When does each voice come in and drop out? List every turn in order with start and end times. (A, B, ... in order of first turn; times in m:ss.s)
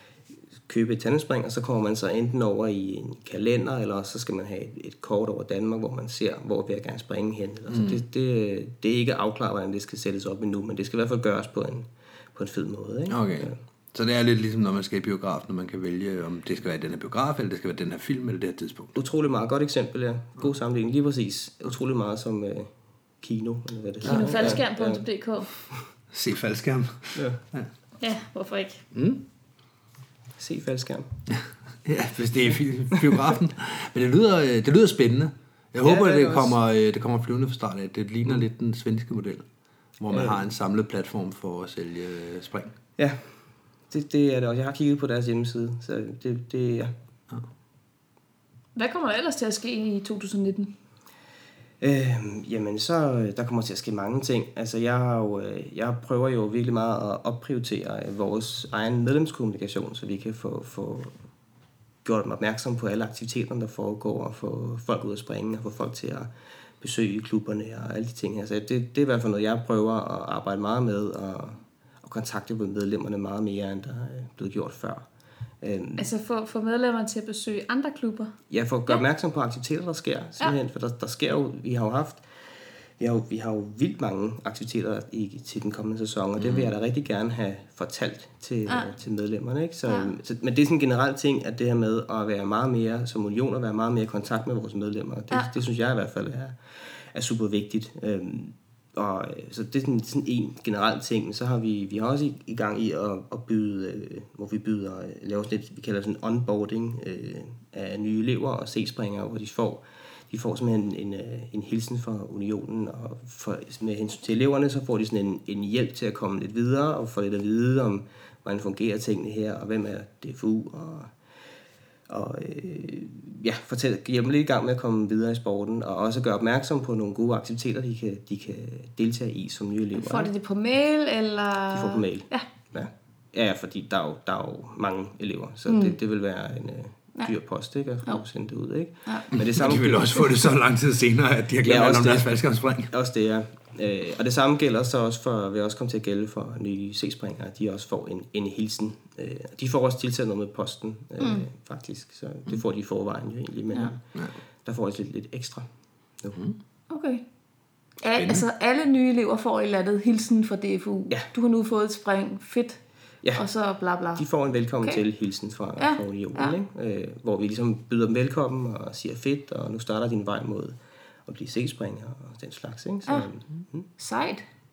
0:00.7-0:13.6 A
0:07.7-0:08.0 B
0:13.1-0:19.0 B
0:19.0-0:25.0 A
0:24.0-0:25.6 C
0:24.3-0:24.6 B
0:26.1-0:27.7 B
0:28.0-0:28.8 C
0:28.9-0:29.2 B
0:30.4-0:31.1 A
0:31.4-0:39.5 B
0:35.8-0:36.6 A
0:40.0-0:42.8 B
0:40.1-0:40.4 A
0:43.0-0:46.9 A
0:48.8-0:50.8 C
0:51.8-1:01.1 A
1:02.0-1:15.1 A
1:15.6-1:16.1 A
1:16.0-1:18.4 C
1:18.5-2:01.2 A
1:26.4-1:26.7 B
1:28.7-1:28.9 C
1:29.9-1:30.1 C
2:02.1-2:10.3 A
2:10.0-2:12.5 C
2:11.7-2:20.5 A
2:15.7-2:16.0 C
2:19.4-2:22.9 B
2:21.6-2:36.4 A
2:31.2-2:31.5 C
2:36.9-2:37.2 C
2:38.0-2:45.0 C
2:38.1-2:38.5 B
2:44.2-2:53.9 A
2:45.8-2:46.6 C
2:53.9-2:54.4 C